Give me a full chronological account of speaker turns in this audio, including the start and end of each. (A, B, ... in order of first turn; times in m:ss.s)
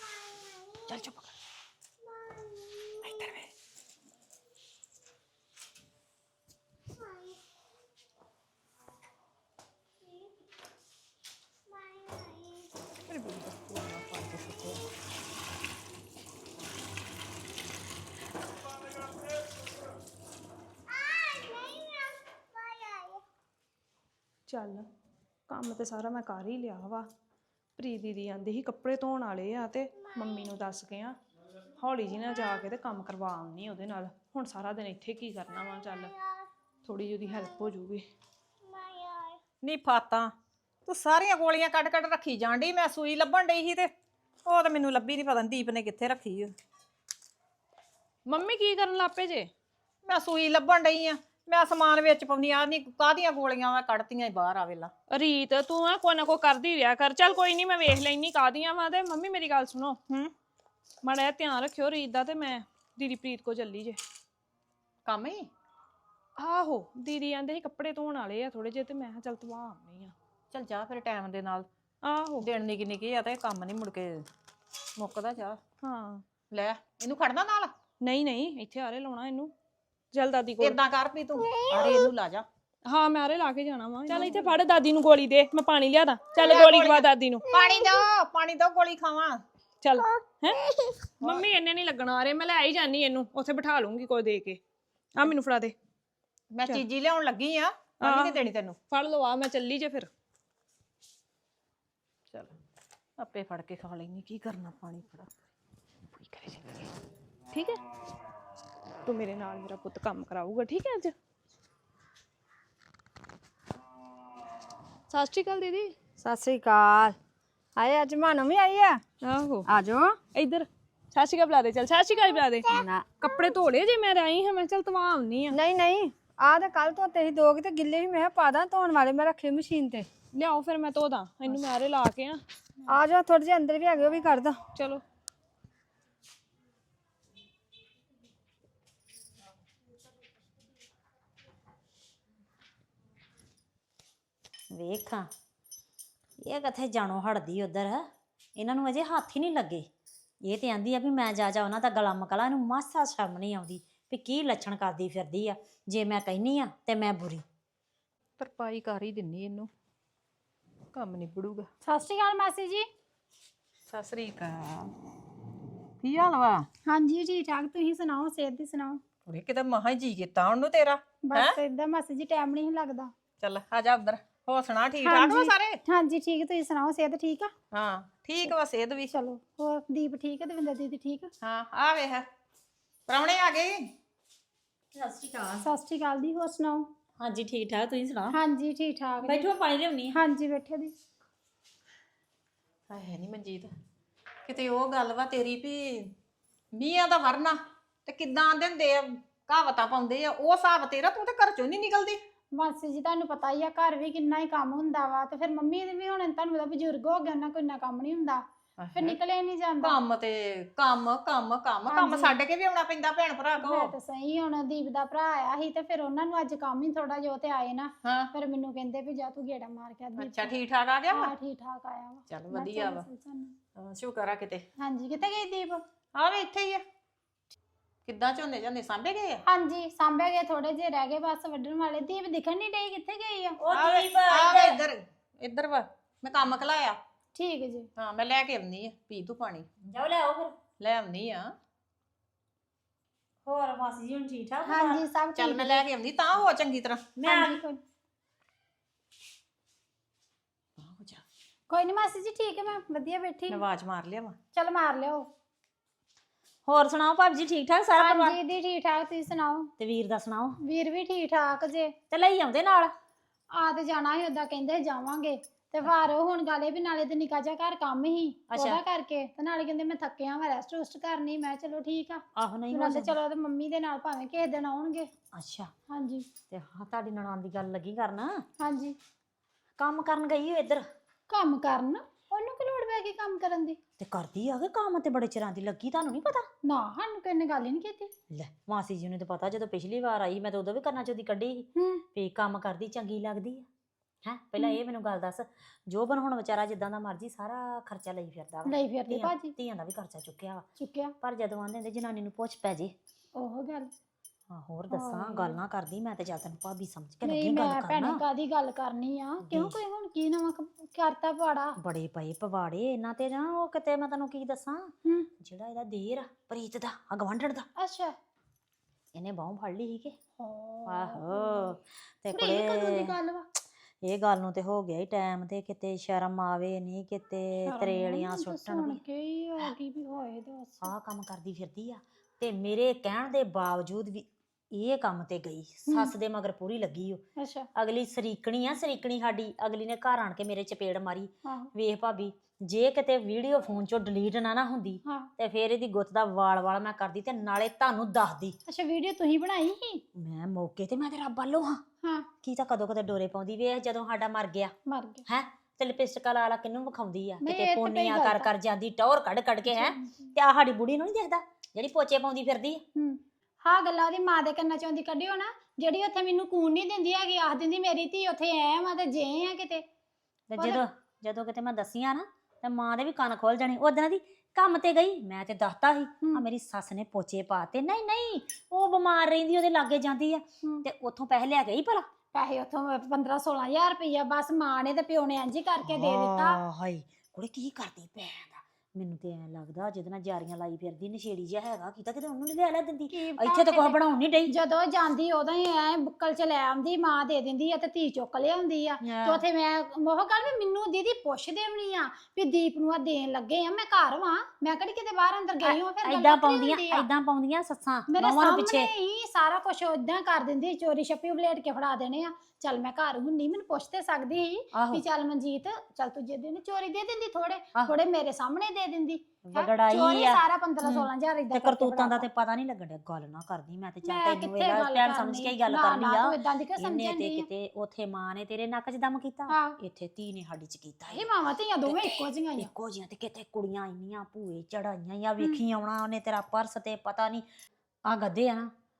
0:00.9-0:01.2 A
0:03.0-0:03.5 B
0:13.1-0:14.8 B
0:24.5-0:24.8 C
0:25.5-0:27.1 C
0:27.8-0:31.2 C
0:31.8-0:36.1 C
0:36.8-0:38.0 C
0:39.6-0:40.3 B
0:40.8-0:43.9 B
0:44.4-0:46.5 B
0:48.3-0:49.5 C
0:50.0-0:54.9 B
0:55.1-1:00.3 C
1:01.0-1:04.0 C
1:05.0-1:05.5 B
1:06.4-1:10.1 C
1:10.5-1:11.7 B
1:12.0-1:12.5 C
1:12.4-1:14.2 B
1:15.0-1:15.6 B
1:15.8-1:16.2 C
1:16.5-1:17.7 B
1:18.0-1:19.5 C
1:20.1-1:20.8 C
1:20.6-1:22.4 B
1:22.8-1:27.5 C
1:26.4-1:29.4 B
1:29.8-1:34.6 C
1:35.1-1:35.7 C
1:36.5-1:38.8 B
1:38.0-1:40.1 C
1:42.3-1:42.6 B
1:43.2-1:45.3 B
1:46.2-1:46.9 B
1:47.5-1:47.8 C
1:49.0-1:51.1 C
1:55.1-1:55.9 C
1:56.2-1:57.2 D
1:57.8-1:59.0 D
1:59.2-1:59.7 C
1:59.6-2:00.2 D
2:00.3-2:02.7 C
2:02.8-2:03.0 D
2:03.2-2:05.6 C
2:05.5-2:10.1 D
2:10.3-2:12.4 C
2:12.9-2:14.6 D
2:14.7-2:15.0 C
2:24.7-2:25.3 A
2:26.4-2:29.9 A
2:30.4-2:37.4 A
2:38.4-2:39.7 B
2:40.9-2:41.7 B
2:41.8-2:42.8 E
2:43.9-2:44.9 B
2:46.0-2:46.7 B
2:46.8-2:49.0 E
2:49.2-2:51.6 B
2:51.2-2:53.1 E
2:53.4-2:55.8 B
2:55.0-2:57.5 E
2:57.7-2:59.1 B
2:59.1-3:01.3 E
3:01.4-3:02.2 B
3:03.1-3:03.8 B
3:04.9-3:05.6 A
3:05.6-3:06.8 E
3:07.2-3:08.4 A
3:08.3-3:09.5 E
3:09.2-3:10.2 A
3:10.1-3:10.9 E
3:12.9-3:13.7 B
3:14.4-3:16.1 B
3:16.7-3:22.2 B
3:22.5-3:28.4 E
3:28.8-3:29.2 B
3:28.9-3:30.0 E
3:29.8-3:33.9 B
3:31.9-3:32.4 E
3:33.6-3:40.5 E
3:38.0-3:38.3 B
3:40.2-3:41.3 B
3:41.1-3:43.5 E
3:42.3-3:43.0 B
3:43.8-3:44.6 B
3:44.8-3:45.8 E
3:46.1-3:46.8 B
3:48.0-3:49.4 B
3:49.5-3:53.6 E
3:53.6-3:54.8 A
3:53.7-3:57.0 B
3:57.3-3:57.9 E
3:58.0-3:59.6 B
3:59.8-4:00.6 A
4:00.8-4:01.5 B
4:03.4-4:05.0 A
4:04.6-4:05.8 E
4:05.4-4:07.2 B
4:07.2-4:07.6 A
4:07.2-4:07.8 E
4:10.9-4:11.2 B
4:11.7-4:13.6 E
4:13.5-4:14.4 B
4:14.5-4:15.2 E
4:16.7-4:18.4 A
4:18.0-4:19.7 E
4:19.8-4:20.6 A
4:20.6-4:21.9 E
4:22.1-4:22.9 A
4:23.5-4:35.1 E
4:28.5-4:28.8 A
4:32.4-4:33.2 A
4:35.3-4:35.7 A
4:35.9-4:36.2 E
4:36.5-4:38.4 A
4:38.6-4:39.0 E
4:39.8-4:40.8 A
4:41.3-4:43.8 E
4:44.0-4:46.5 A
4:46.6-4:48.1 E
4:48.3-4:53.6 A
4:51.8-4:52.0 E
4:54.2-5:00.6 A
4:58.6-4:59.5 E
5:00.8-5:01.1 E
5:01.2-5:02.9 A
5:03.3-5:03.9 E
5:04.5-5:08.2 A
5:04.9-5:05.6 E
5:07.2-5:11.8 E
5:09.4-5:09.7 A
5:11.8-5:17.6 A
5:17.8-5:18.1 E
5:19.1-5:20.2 A
5:20.4-5:21.8 E
5:20.9-5:23.1 A
5:22.3-5:23.4 E
5:24.0-5:29.0 A
5:27.6-5:30.9 E
5:30.8-5:37.2 A
5:37.4-5:37.7 E
5:37.7-5:48.6 A
5:41.4-5:41.7 E
5:45.0-5:45.3 E
5:48.7-5:50.0 E
5:50.1-5:51.8 A
5:52.0-5:52.3 E
5:52.4-5:54.7 A
5:54.9-5:55.2 E
5:55.2-6:02.8 A
5:57.4-5:58.5 E
5:59.7-6:00.3 E
6:03.0-6:09.8 E
6:10.5-6:22.0 A
6:10.6-6:10.8 E
6:22.3-6:26.6 E
6:25.8-6:34.5 A
6:33.1-6:34.0 E
6:34.5-6:47.1 E
6:39.0-6:39.4 A
6:45.6-6:48.9 A
6:48.1-7:02.2 E
6:54.7-6:55.0 A
6:59.4-7:11.3 A
7:04.0-7:07.5 E
7:09.5-7:09.8 E
7:11.1-7:12.7 E
7:11.8-7:17.4 A
7:18.1-7:18.7 A